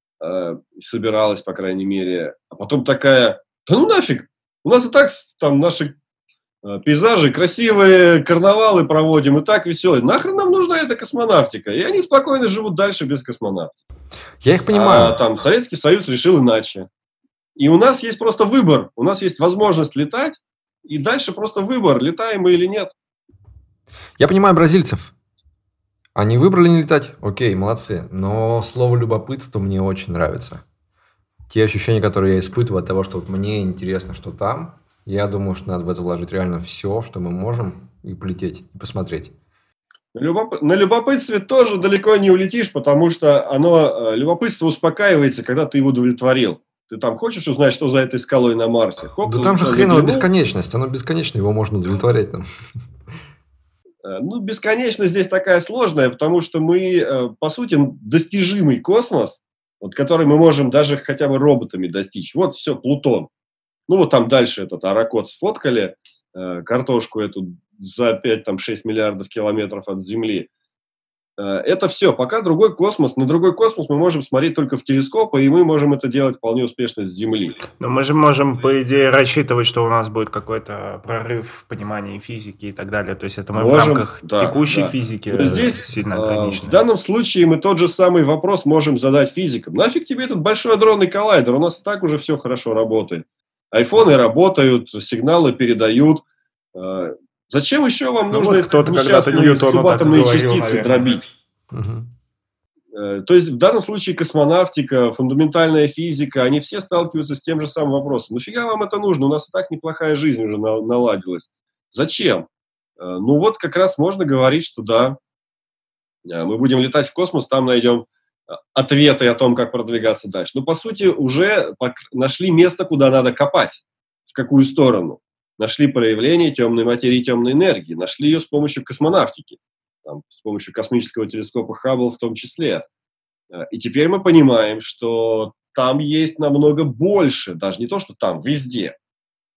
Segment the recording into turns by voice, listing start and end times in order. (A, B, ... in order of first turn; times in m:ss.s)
0:00.2-0:05.9 A
0:06.6-0:13.8 A
0:14.4-0:15.2 B
0:14.7-0:16.9 A
0:17.6-0:22.9 A
0:24.2-0:25.1 B
0:26.2-0:30.6 B
0:31.5-0:39.3 B
0:40.1-0:50.3 A
0:49.3-0:52.5 B
0:54.0-1:03.3 A
1:03.9-1:10.5 A
1:11.4-1:17.6 A
1:17.8-1:26.8 C
1:23.6-1:36.2 A
1:36.8-1:41.2 A
1:38.3-1:41.0 C
1:41.7-1:42.1 B
1:42.9-1:52.5 A
1:53.0-1:55.2 A
1:56.3-2:12.8 A
2:13.5-2:19.0 A